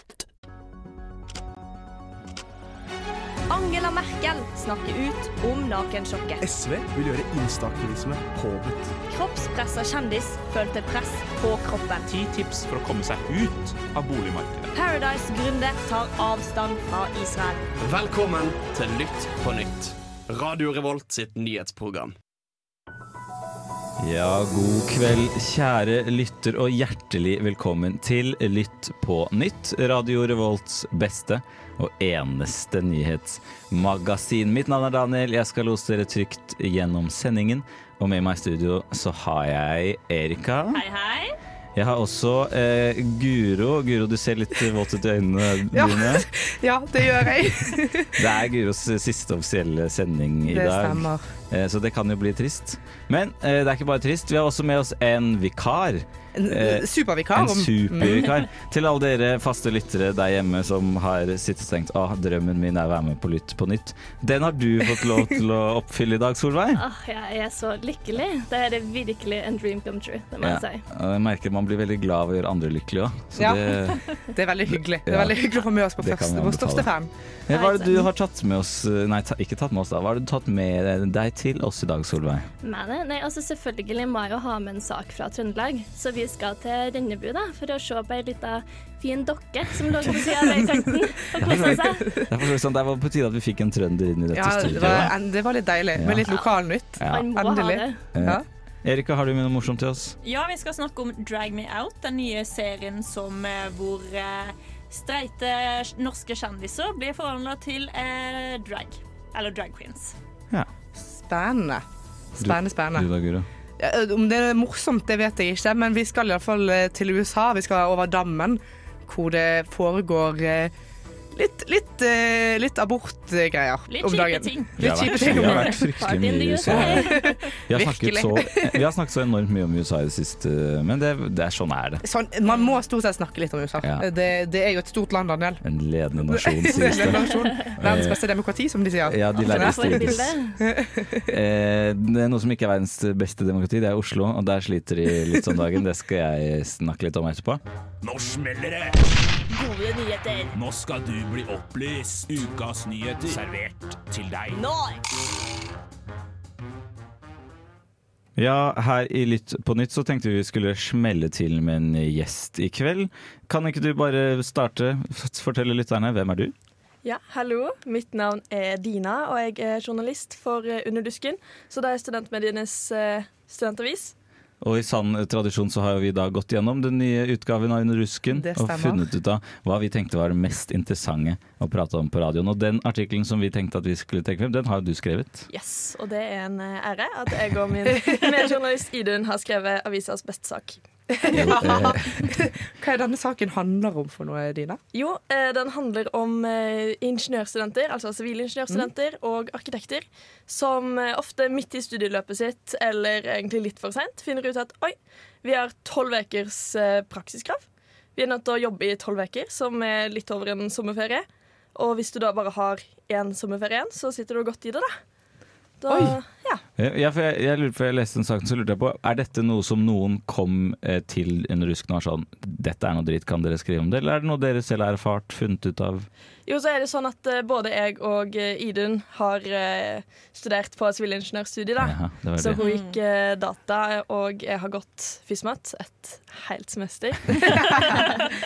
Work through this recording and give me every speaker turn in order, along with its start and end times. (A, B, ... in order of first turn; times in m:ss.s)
0:03.5-0:06.4 A
0:06.4-0:08.9 B
0:09.1-0:12.1 A
0:12.1-0:14.7 C
0:14.7-0:17.7 A
0:17.8-0:22.2 D
0:24.0-0:40.8 E
0:40.7-0:41.4 F
0:41.8-0:46.2 E
0:45.7-0:48.3 G
0:48.2-1:06.8 E
0:50.5-0:51.3 G
0:56.4-0:58.3 G
1:06.8-1:10.8 H
1:10.4-1:14.1 E
1:13.4-1:17.1 G
1:15.1-1:15.4 E
1:16.0-1:16.9 E
1:17.5-1:22.5 E
1:17.5-1:18.1 H
1:22.6-1:32.1 H
1:30.2-1:30.9 G
1:31.4-1:35.2 E
1:34.3-1:38.4 G
1:36.0-1:36.3 E
1:37.0-1:37.3 E
1:37.1-1:38.0 H
1:38.1-1:40.2 E
1:40.2-1:50.2 F
1:51.0-1:51.8 G
1:52.4-1:53.1 G
1:52.4-1:53.5 E
1:53.8-2:00.7 G
2:01.3-2:05.8 G
2:03.9-2:05.1 F
2:04.8-2:07.2 E
2:05.3-2:07.4 H
2:06.6-2:08.8 G
2:07.7-2:12.0 E
2:12.0-2:15.6 G
2:13.8-2:14.1 E
2:15.6-2:18.2 E
2:16.3-2:21.3 G
2:19.0-2:20.3 E
2:19.4-2:20.6 H
2:21.3-2:27.6 E
2:28.0-2:29.1 C
2:29.5-2:30.6 A
2:30.5-2:34.7 C
2:34.5-2:35.0 A
2:38.4-2:46.5 E
2:47.0-2:54.1 I
2:54.6-3:05.5 E
2:58.3-2:59.0 G
3:05.5-3:10.8 I
3:07.9-3:08.4 G
3:11.2-3:14.8 G
3:11.3-3:12.3 E
3:14.9-3:35.0 I
3:35.8-3:36.6 I
3:35.9-3:36.2 E
3:36.8-3:46.1 E
3:46.5-3:58.1 I
3:51.8-3:52.6 E
3:52.6-3:53.0 F
3:57.4-3:58.2 G